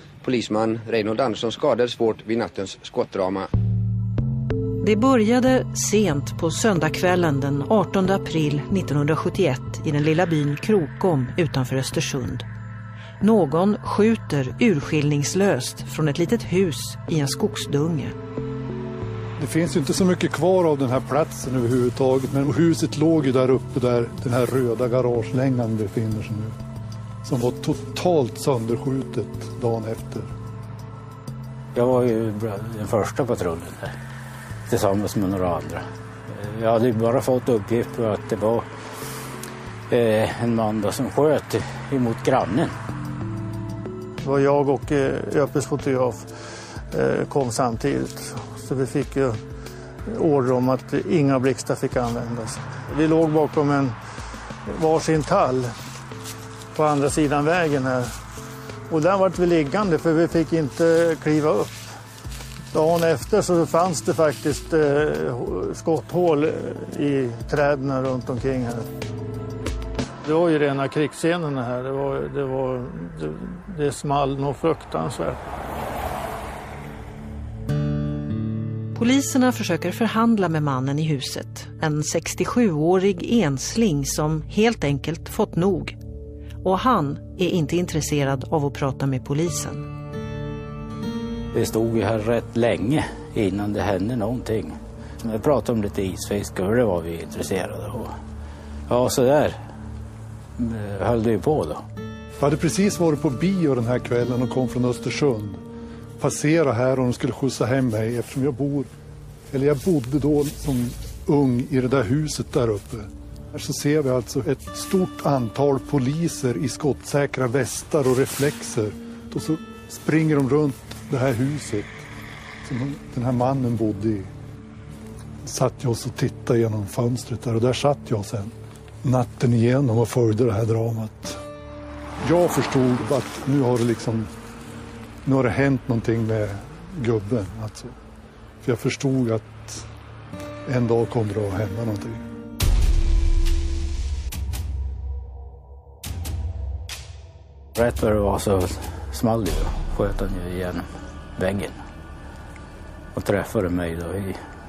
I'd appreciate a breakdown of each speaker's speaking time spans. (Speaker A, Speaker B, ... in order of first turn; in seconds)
Speaker A: 0.2-3.5
Speaker B: 4.8-12.5, 13.2-18.1, 79.0-86.0, 86.6-89.9
Speaker C: 19.4-26.6, 27.2-30.3, 102.4-105.6, 106.2-108.9, 109.5-122.0, 122.6-124.3, 125.4-128.5, 129.0-131.4, 132.2-134.3, 135.2-138.0, 138.6-139.8, 140.7-142.2
Speaker D: 31.8-33.9, 34.7-38.7, 39.9-42.7, 91.5-98.1, 98.9-99.6, 100.6-101.8, 147.8-151.8, 153.1-154.4
Speaker E: 44.2-46.3, 46.9-49.4, 50.1-54.0, 54.7-55.7, 56.7-58.1, 58.9-61.8, 62.7-68.9, 70.2-75.4